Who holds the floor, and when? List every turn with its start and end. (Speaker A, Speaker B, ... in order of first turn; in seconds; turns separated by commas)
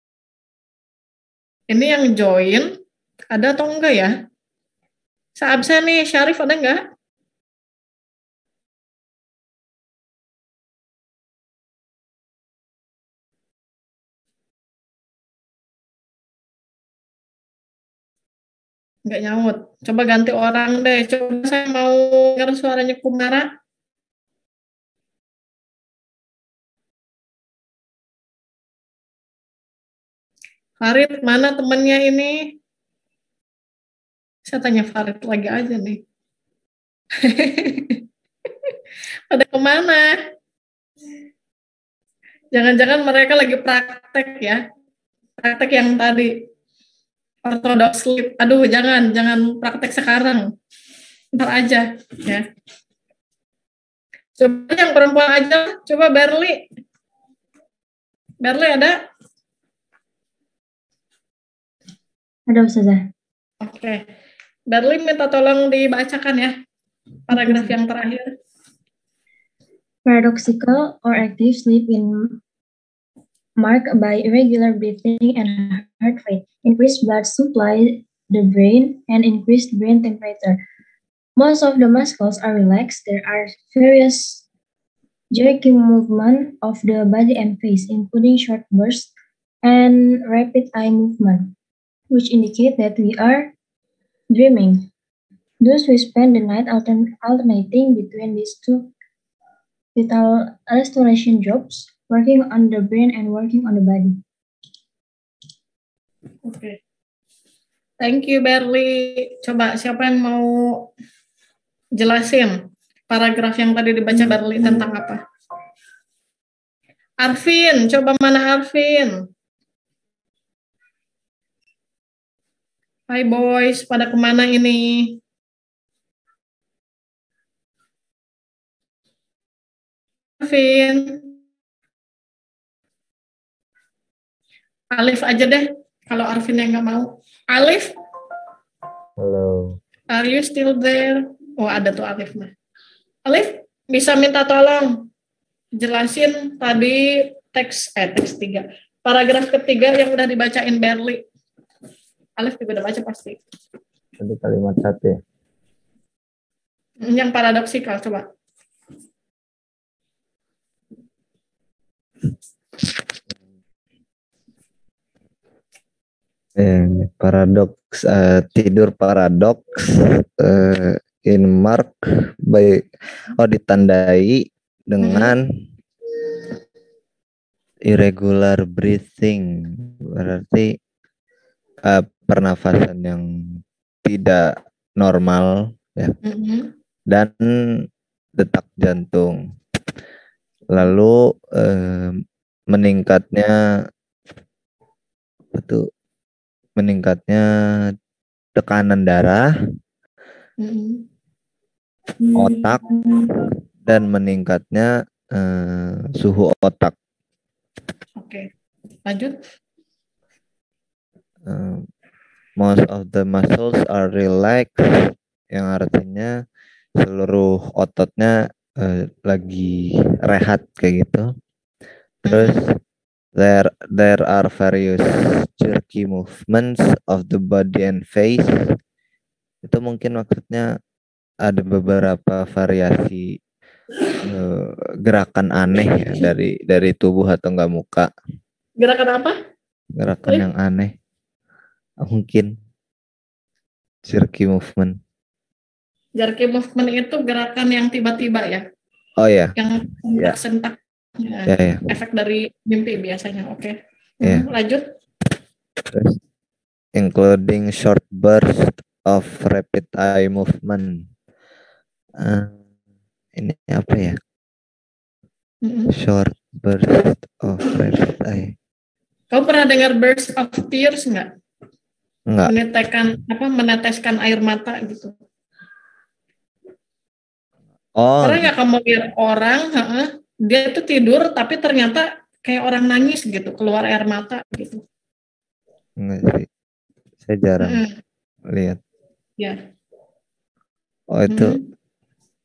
Speaker A: 1.7-2.7, Speaker A: 3.3-4.1, Speaker A: 5.4-6.8, Speaker A: 19.1-23.4, Speaker A: 30.8-32.4, Speaker A: 34.5-36.0, Speaker A: 37.2-38.0, Speaker A: 39.3-40.1, Speaker A: 42.5-44.6, Speaker A: 45.4-46.3, Speaker A: 47.5-50.5, Speaker A: 51.4-52.4, Speaker A: 54.4-56.6, Speaker A: 58.4-59.0, Speaker B: 62.5-63.0, Speaker A: 63.6-64.0, Speaker A: 64.7-66.5, Speaker A: 67.3-68.3, Speaker B: 67.3-67.7, Speaker B: 70.0-72.4, Speaker B: 73.6-80.6, Speaker B: 81.4-84.5, Speaker B: 85.3-89.1, Speaker B: 89.6-91.5, Speaker B: 92.1-93.5, Speaker B: 94.3-94.9, Speaker B: 95.6-98.9, Speaker B: 100.0-104.2, Speaker A: 106.5-106.8, Speaker A: 108.0-110.9, Speaker A: 112.0-112.6, Speaker A: 113.1-115.2, Speaker A: 117.2-119.2, Speaker A: 123.1-125.2, Speaker A: 130.4-131.2, Speaker A: 135.0-137.9, Speaker C: 139.2-139.8, Speaker A: 140.1-142.5, Speaker A: 143.3-144.9, Speaker A: 145.8-151.2, Speaker A: 152.4-153.4, Speaker C: 154.2-155.2, Speaker A: 157.0-158.2, Speaker C: 166.6-171.9, Speaker C: 172.5-172.8, Speaker C: 173.4-175.4, Speaker A: 175.0-175.3, Speaker C: 177.9-180.8, Speaker C: 181.8-186.2, Speaker A: 186.2-186.7, Speaker C: 187.1-187.8, Speaker C: 188.4-189.4, Speaker C: 190.7-193.6, Speaker C: 195.5-195.9, Speaker C: 196.8-197.9, Speaker C: 198.6-199.5, Speaker A: 200.6-201.0, Speaker B: 202.2-203.3, Speaker C: 202.4-202.8, Speaker C: 203.9-206.9, Speaker A: 208.2-208.5, Speaker A: 209.1-209.3, Speaker C: 211.5-211.9, Speaker C: 212.6-216.3, Speaker C: 217.0-221.3, Speaker A: 222.3-222.6, Speaker C: 222.3-222.8, Speaker C: 223.4-228.7, Speaker C: 229.7-230.8, Speaker C: 231.4-233.4, Speaker C: 234.3-238.1, Speaker A: 238.8-239.3, Speaker C: 239.9-240.9, Speaker C: 242.0-242.5, Speaker C: 244.1-245.0, Speaker A: 246.2-248.6, Speaker C: 249.2-249.5, Speaker A: 249.6-254.8, Speaker C: 251.5-251.8, Speaker C: 255.9-256.2, Speaker C: 256.9-261.0, Speaker C: 262.2-262.6, Speaker C: 263.4-264.2, Speaker A: 265.6-265.9, Speaker C: 265.9-268.6, Speaker A: 269.3-271.3, Speaker C: 272.3-272.5, Speaker A: 272.5-275.1, Speaker C: 278.0-278.5, Speaker A: 278.2-284.8, Speaker C: 286.0-286.5, Speaker C: 287.2-287.8, Speaker A: 287.6-287.9, Speaker C: 288.5-288.8, Speaker C: 291.1-291.6, Speaker A: 291.3-291.6